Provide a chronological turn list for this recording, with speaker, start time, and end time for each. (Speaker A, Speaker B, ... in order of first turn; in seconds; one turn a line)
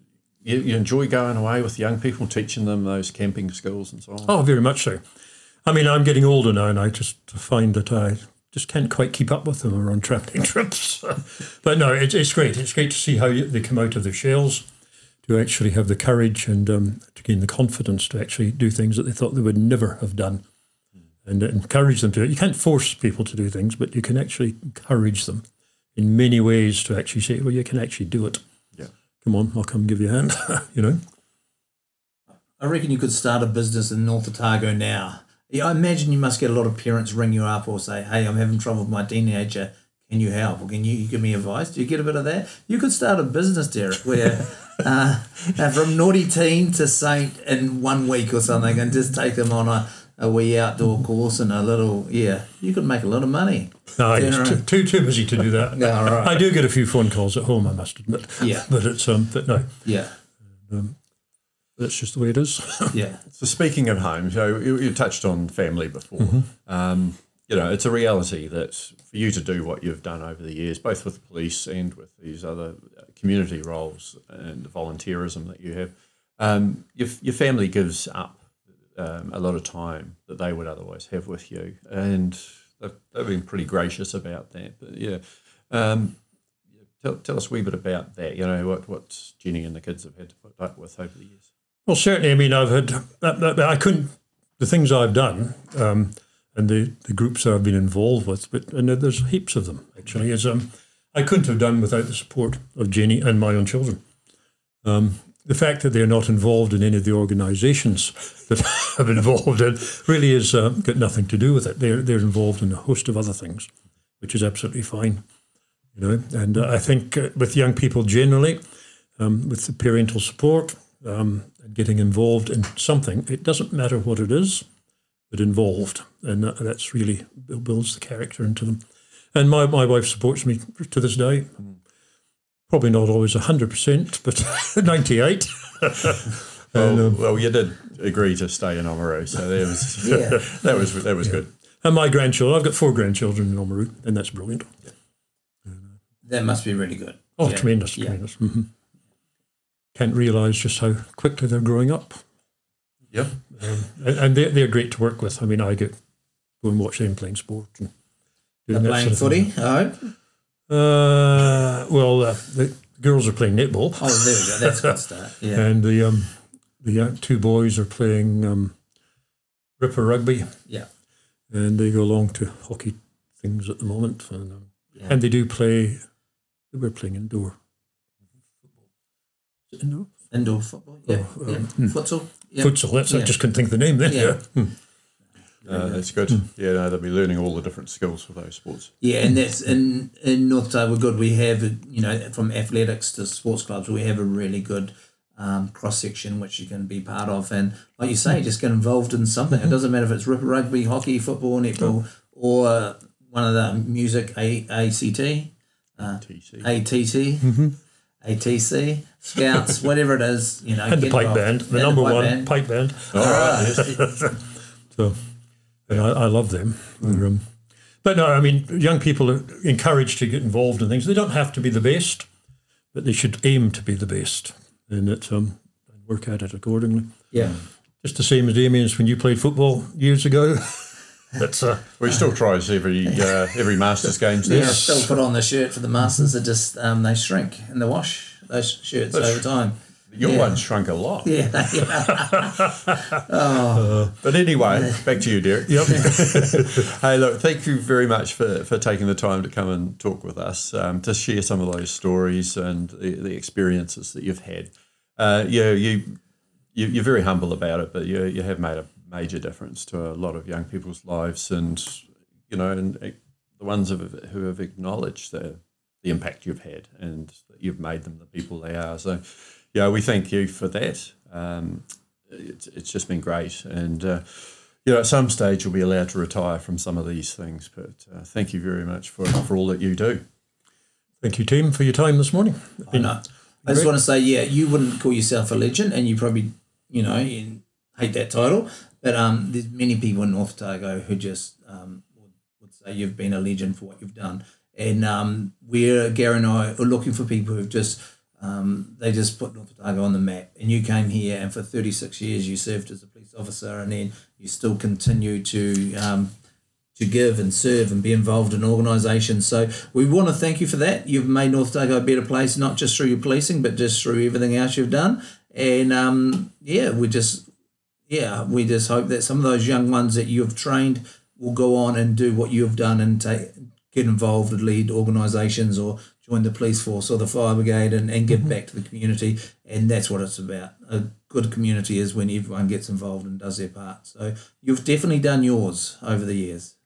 Speaker A: 0.4-4.3
Speaker B: 4.3-5.0
Speaker B: 5.6-14.7
Speaker B: 15.2-20.4
Speaker B: 21.2-25.4
Speaker B: 25.9-28.4
Speaker B: 29.2-31.0
Speaker C: 32.6-54.6
Speaker B: 54.0-59.9
Speaker C: 55.7-56.4
Speaker C: 58.4-58.7
Speaker C: 59.8-60.1
Speaker B: 60.7-61.0
Speaker B: 61.8-63.0
Speaker C: 62.9-63.2
Speaker A: 63.3-86.2
Speaker B: 66.2-66.5
Speaker A: 87.0-91.5
Speaker B: 91.9-104.0
Speaker B: 104.8-115.2
Speaker B: 116.0-118.6
Speaker B: 119.2-124.7
Speaker B: 125.3-131.6
Speaker B: 132.7-137.2
Speaker A: 136.7-141.5
Speaker C: 140.0-140.4
Speaker B: 141.3-144.8
Speaker C: 146.2-148.2
Speaker B: 147.4-148.7
Speaker B: 149.9-152.2
Speaker B: 153.5-156.0
Speaker B: 156.6-157.9
Speaker B: 158.7-159.5
Speaker C: 158.7-160.1
Speaker B: 160.7-164.9
Speaker C: 164.0-165.7
Speaker B: 165.5-168.8
Speaker B: 169.8-170.6
Speaker B: 171.5-176.1
Speaker B: 176.7-177.6
Speaker B: 179.7-180.1
Speaker C: 180.3-183.3
Speaker B: 181.1-182.0
Speaker B: 182.6-184.7
Speaker C: 184.0-184.4
Speaker C: 185.7-186.0
Speaker A: 185.7-188.9
Speaker C: 189.0-207.6
Speaker A: 206.2-206.7
Speaker B: 207.4-207.8
Speaker C: 208.2-212.5
Speaker B: 210.9-215.2
Speaker C: 213.1-214.1
Speaker A: 213.1-213.9
Speaker B: 215.9-217.5
Speaker B: 218.0-222.3
Speaker B: 222.9-227.3
Speaker C: 227.3-227.6
Speaker B: 228.0-231.9
Speaker A: 232.0-234.9
Speaker C: 234.5-240.6
Speaker B: 234.5-235.0
Speaker B: 239.2-239.4
Speaker A: 240.1-241.4
Speaker C: 241.2-244.1
Speaker A: 244.1-256.2
Speaker C: 244.7-245.0
Speaker B: 245.7-246.8
Speaker C: 245.8-246.1
Speaker A: 256.7-280.2
Speaker B: 281.2-283.9
Speaker C: 282.9-306.3
Speaker C: 307.0-317.5
Speaker C: 318.1-336.7